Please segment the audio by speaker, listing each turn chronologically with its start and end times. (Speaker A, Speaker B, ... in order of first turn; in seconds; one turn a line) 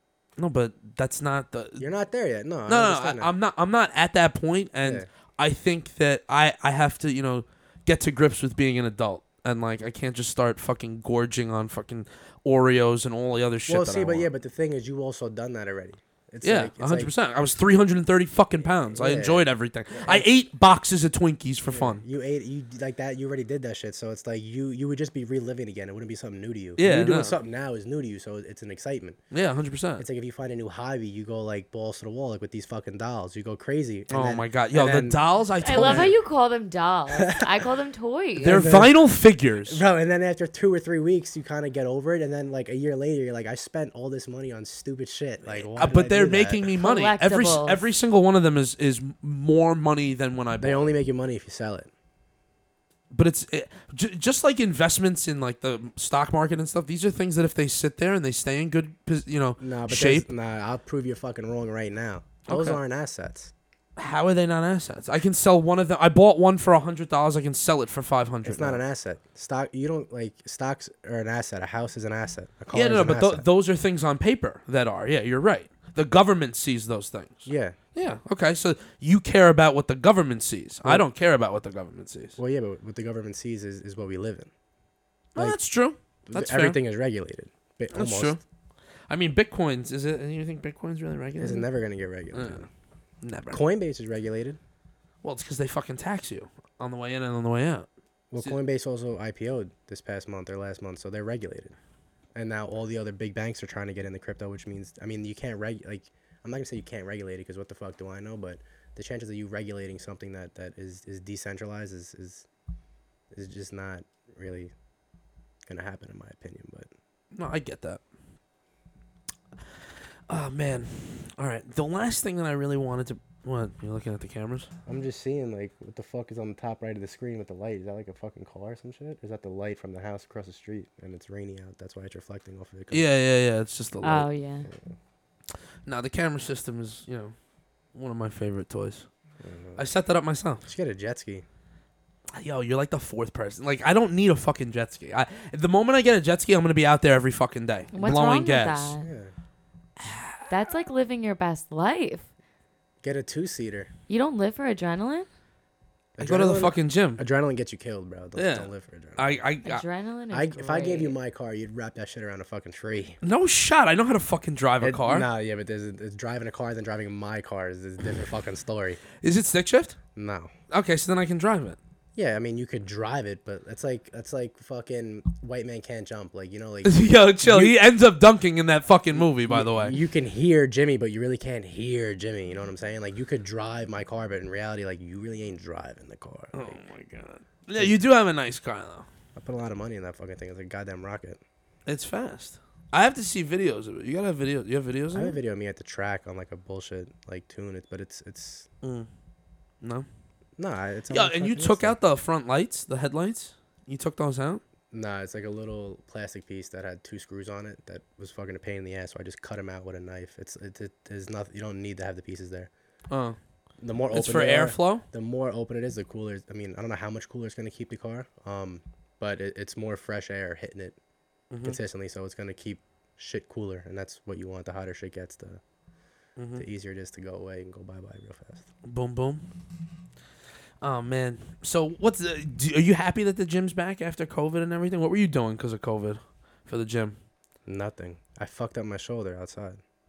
Speaker A: 0.4-1.9
Speaker B: 1.8-3.3
Speaker A: 2.7-14.3
Speaker B: 13.7-17.1
Speaker A: 16.4-22.0
Speaker B: 18.9-20.3
Speaker B: 21.7-29.2
Speaker A: 26.8-27.4
Speaker A: 29.3-30.0
Speaker B: 30.0-35.2
Speaker A: 34.1-36.1
Speaker C: 35.6-38.7
Speaker B: 35.7-36.1
Speaker B: 37.1-37.5
Speaker A: 38.4-39.8
Speaker B: 38.4-39.0
Speaker B: 39.7-46.7
Speaker A: 45.5-50.9
Speaker C: 46.8-47.9
Speaker B: 50.6-51.9
Speaker A: 53.1-60.3
Speaker B: 59.6-63.5
Speaker A: 62.5-62.8
Speaker A: 64.0-68.8
Speaker B: 68.4-73.5
Speaker A: 72.7-82.4
Speaker B: 77.5-77.8
Speaker B: 82.4-84.5
Speaker A: 85.3-86.8
Speaker B: 86.3-88.4
Speaker A: 87.9-88.4
Speaker A: 89.1-91.7
Speaker B: 91.4-92.7
Speaker A: 92.3-92.7
Speaker A: 93.2-93.6
Speaker B: 93.5-94.6
Speaker A: 95.2-98.6
Speaker B: 98.3-101.8
Speaker B: 102.3-112.5
Speaker B: 113.3-114.7
Speaker B: 115.7-116.9
Speaker A: 117.3-118.0
Speaker A: 120.3-124.7
Speaker B: 124.9-133.1
Speaker A: 132.9-134.3
Speaker C: 134.0-134.7
Speaker B: 134.7-134.9
Speaker A: 135.8-137.3
Speaker A: 137.9-139.1
Speaker B: 139.4-139.8
Speaker A: 139.8-140.7
Speaker B: 140.7-141.4
Speaker A: 142.3-148.9
Speaker C: 147.9-149.1
Speaker B: 149.0-149.3
Speaker A: 150.0-150.3
Speaker C: 150.5-152.3
Speaker B: 153.0-153.9
Speaker C: 154.1-155.3
Speaker B: 156.2-159.3
Speaker A: 156.2-157.2
Speaker A: 158.4-159.8
Speaker C: 159.7-161.2
Speaker B: 160.3-163.2
Speaker A: 163.2-165.3
Speaker B: 164.8-169.0
Speaker A: 169.2-170.0
Speaker B: 170.2-170.5
Speaker A: 170.7-171.8
Speaker B: 172.2-177.8
Speaker A: 176.8-180.0
Speaker B: 179.1-186.8
Speaker A: 186.5-189.1
Speaker B: 189.4-191.4
Speaker A: 191.9-195.4
Speaker B: 195.1-198.7
Speaker A: 198.8-199.1
Speaker A: 199.8-200.1
Speaker B: 200.6-202.0
Speaker A: 201.1-204.6
Speaker B: 204.9-212.7
Speaker A: 213.1-213.4
Speaker B: 213.8-221.0
Speaker A: 214.1-215.0
Speaker A: 221.5-221.8
Speaker B: 221.6-225.6
Speaker A: 226.4-226.6
Speaker B: 226.6-228.7
Speaker A: 228.8-229.4
Speaker A: 230.8-237.2
Speaker B: 237.7-239.8